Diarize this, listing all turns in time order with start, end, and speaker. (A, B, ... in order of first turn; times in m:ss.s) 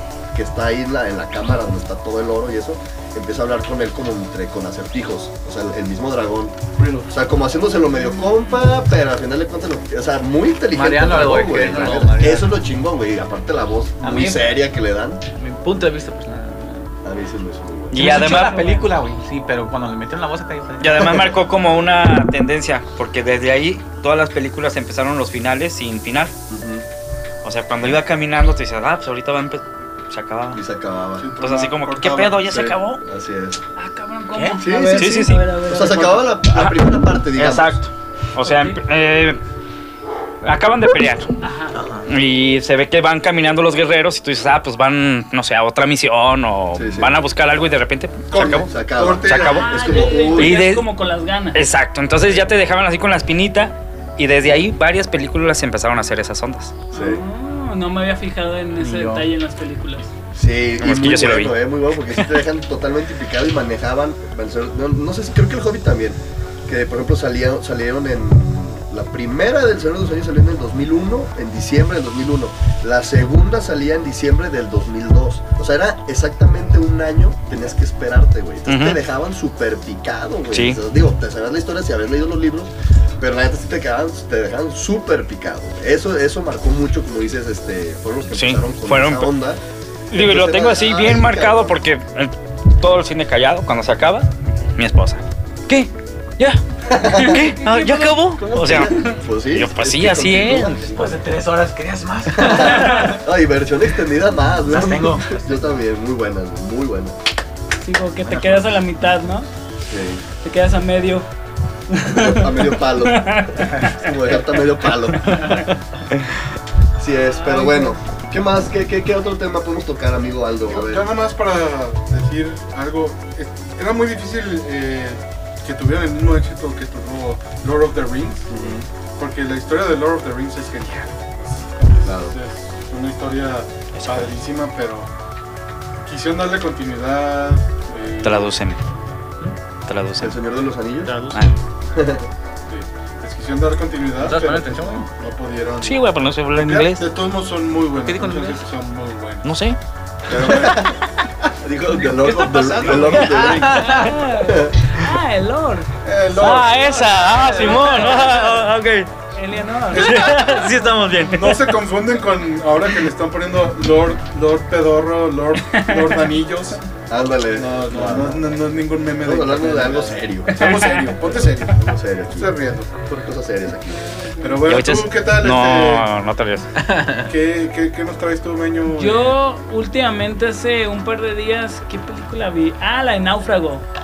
0:00.3-0:06.6 A
0:06.8-0:07.1 B
0:07.1-0:15.2 A
0:10.7-0:12.5 C
0:14.0-0:14.6 C
0:15.4-0:16.9 C
0:17.0-0:18.1 A
0:17.9-0:18.7 D
0:17.9-0:21.2 C
0:18.1-0:18.9 E
0:20.8-0:26.3 D
0:21.0-0:21.4 A
0:26.5-0:26.9 A
0:27.4-0:30.6 D
0:30.5-0:31.3 A
0:31.2-0:32.4 B
0:31.4-0:33.0 D
0:32.4-0:33.6 A
0:33.8-0:36.3 E
0:34.6-0:37.8 A
0:34.9-0:39.4 D
0:38.4-0:38.8 E
0:40.4-0:41.3 D
0:41.4-0:41.8 E
0:41.7-0:42.1 C
0:42.1-0:48.7 D
0:46.7-0:47.2 A
0:48.3-0:50.2 B
0:48.4-0:50.6 A
0:49.2-0:49.8 D
0:49.5-0:51.6 E
0:50.3-0:50.9 D
0:51.5-0:56.8 D
0:56.9-1:00.1 E
0:56.9-0:57.2 A
0:58.8-0:59.3 C
1:00.3-1:31.8 A
1:00.8-1:01.6 D
1:18.7-1:19.0 D
1:20.5-1:20.8 D
1:28.3-1:29.3 D
1:30.1-1:41.1 D
1:36.9-1:37.5 A
1:37.0-1:39.2 E
1:38.4-1:41.2 A
1:40.9-1:43.2 C
1:42.4-1:47.2 A
1:42.6-1:43.2 E
1:44.7-1:45.5 C
1:47.8-1:49.5 E
1:48.3-1:48.6 C
1:49.9-1:50.2 A
1:50.4-1:51.3 E
1:51.9-1:54.1 E
1:52.1-1:55.6 A
1:55.2-1:55.7 E
1:57.0-2:01.1 A
1:57.2-1:58.0 E
2:00.7-2:08.6 B
2:08.5-2:08.9 A
2:09.2-2:15.1 B
2:12.0-2:12.4 A
2:13.9-2:14.3 D
2:16.0-2:18.6 B
2:18.2-2:18.8 D
2:19.9-2:20.4 D
2:20.2-2:21.1 A
2:21.1-2:21.4 C
2:21.3-2:21.6 D
2:21.9-2:22.2 A
2:22.7-2:29.5 B
2:24.2-2:25.1 C
2:25.8-2:27.1 D
2:28.0-2:28.6 C
2:29.4-2:29.8 D
2:30.3-2:30.9 B
2:30.4-2:34.8 A
2:32.0-2:34.2 C
2:32.8-2:33.6 B
2:33.6-2:35.9 E
2:36.0-2:38.0 B
2:36.3-2:39.1 D
2:37.3-2:38.6 E
2:39.3-2:40.8 E
2:39.9-2:40.6 B
2:39.9-2:41.8 D
2:41.3-2:46.8 B
2:45.6-2:46.3 E
2:47.1-2:48.5 A
2:47.6-2:52.9 B
2:49.2-2:50.8 A
2:50.5-2:51.2 E
2:51.8-2:54.1 A
2:54.4-2:56.1 B
2:54.6-2:56.7 D
2:56.8-2:57.3 C
2:57.3-2:59.4 B
2:58.9-3:03.8 E